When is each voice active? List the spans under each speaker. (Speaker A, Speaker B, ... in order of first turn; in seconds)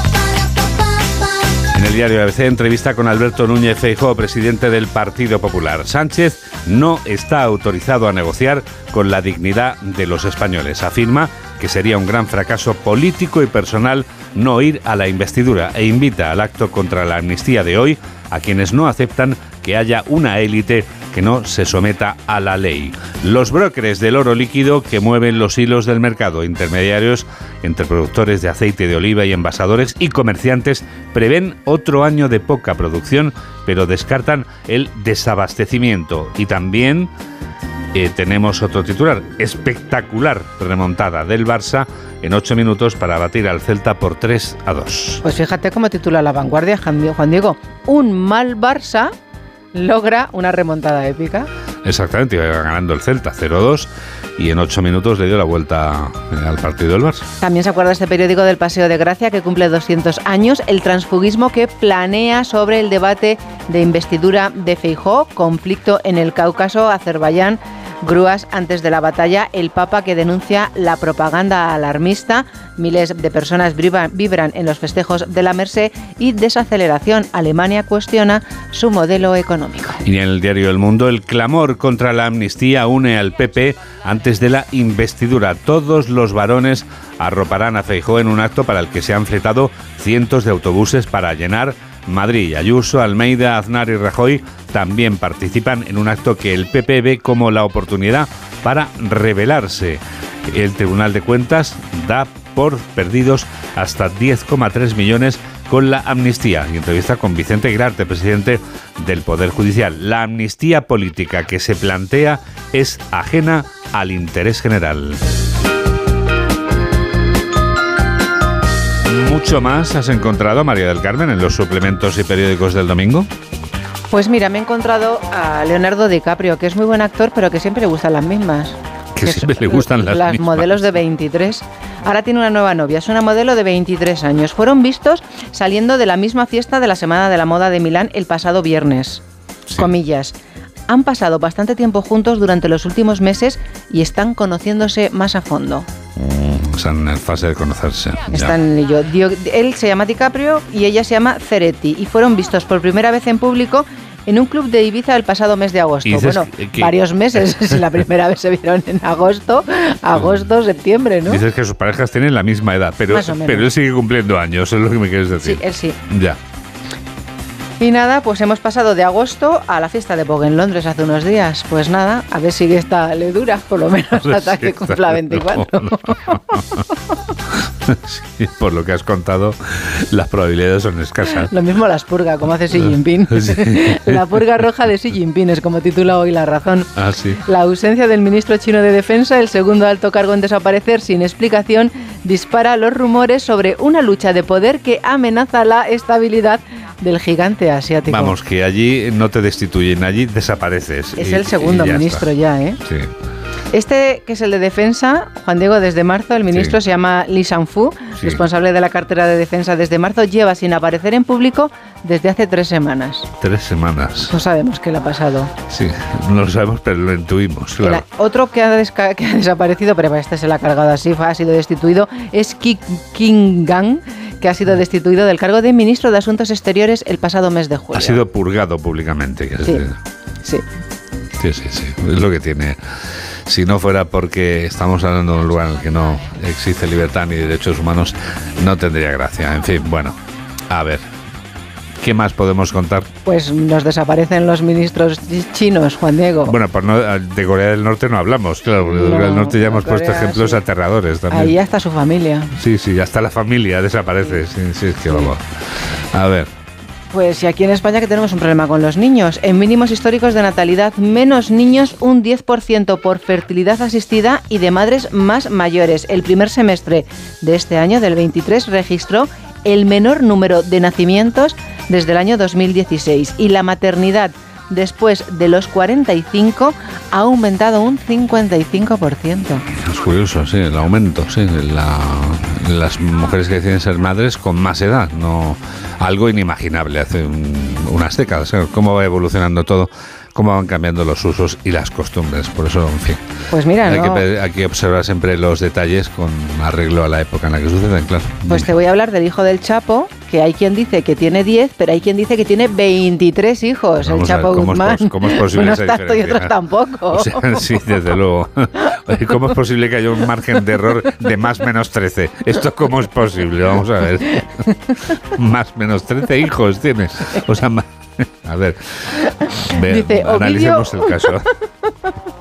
Speaker A: 1.8-37.1, 37.9-45.2, 51.9-57.3, 80.0-115.2, 119.1-123.3, 129.2-131.0, 146.2-148.6, 156.1-156.9, 160.1-160.5, 161.3-166.4, 174.2-176.8, 177.9-181.5, 182.9-184.2, 187.0-187.4, 198.1-202.3, 213.4-214.3, 215.7-218.0, 227.9-230.0, 231.4-232.8, 233.5-240.2, 240.7-241.1, 242.0-243.1, 246.5-251.5, 252.6-255.4, 256.1-256.5, 279.8-293.2, 293.9-298.7, 304.0-306.5, 307.1-314.4, 315.4-318.8, 319.5-321.5
Speaker B: 45.2-49.1, 49.8-51.5, 57.4-80.0, 124.1-139.2, 139.8-140.3, 140.9-145.9, 148.3-161.4, 163.1-163.7, 165.4-166.0, 167.8-176.4, 181.5-186.9, 187.4-198.4, 201.2-202.8, 203.7-213.3, 214.3-215.5, 217.8-228.2, 243.3-246.6, 248.8-250.6, 251.3-252.5, 257.1-279.6, 293.5-294.2, 298.5-307.6, 319.8-321.3